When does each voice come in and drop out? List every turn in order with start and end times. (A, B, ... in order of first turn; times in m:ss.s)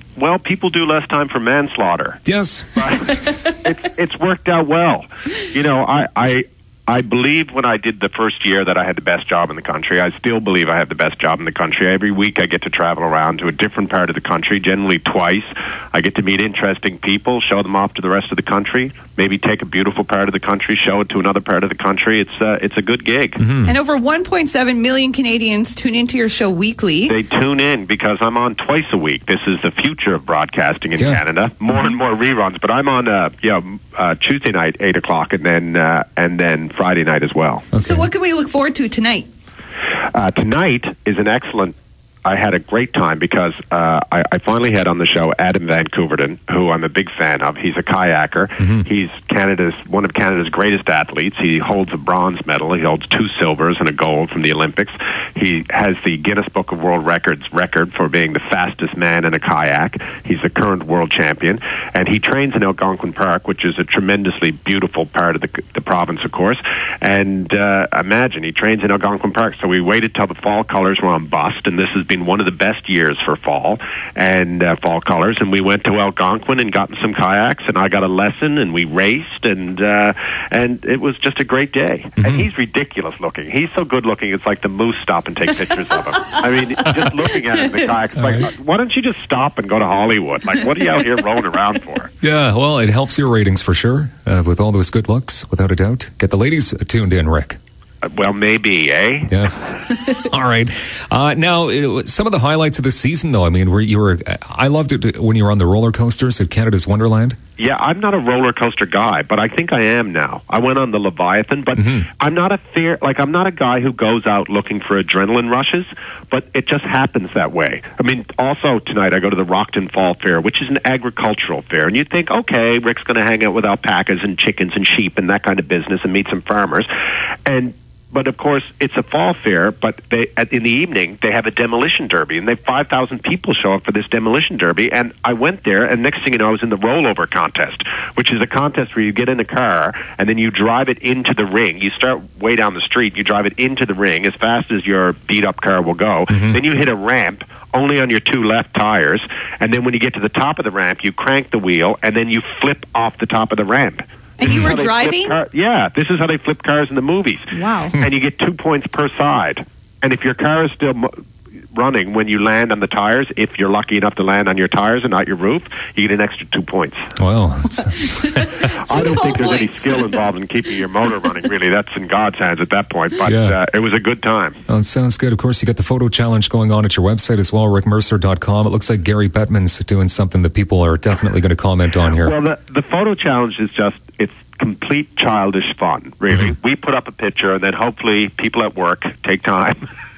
0:00.2-0:02.2 A
0:02.2-0:02.8 B
0:02.7-0:23.4 A
0:23.4-0:23.7 B
0:23.6-0:27.1 C
0:27.1-0:37.6 A
0:37.7-0:38.1 B
0:37.8-0:39.3 C
0:40.1-1:32.1 A
1:22.2-1:22.4 B
1:32.2-1:37.6 B
1:38.0-1:39.3 A
1:39.3-1:47.4 B
1:47.6-2:06.9 A
2:07.4-2:41.1 A
2:34.4-2:35.3 C
2:34.4-2:34.8 B
2:37.5-2:37.9 C
2:41.7-2:47.0 A
2:47.2-2:49.0 B
2:48.8-2:54.6 A
2:48.9-2:50.0 C
2:53.2-2:53.6 B
2:54.7-3:02.3 B
3:02.2-3:09.8 A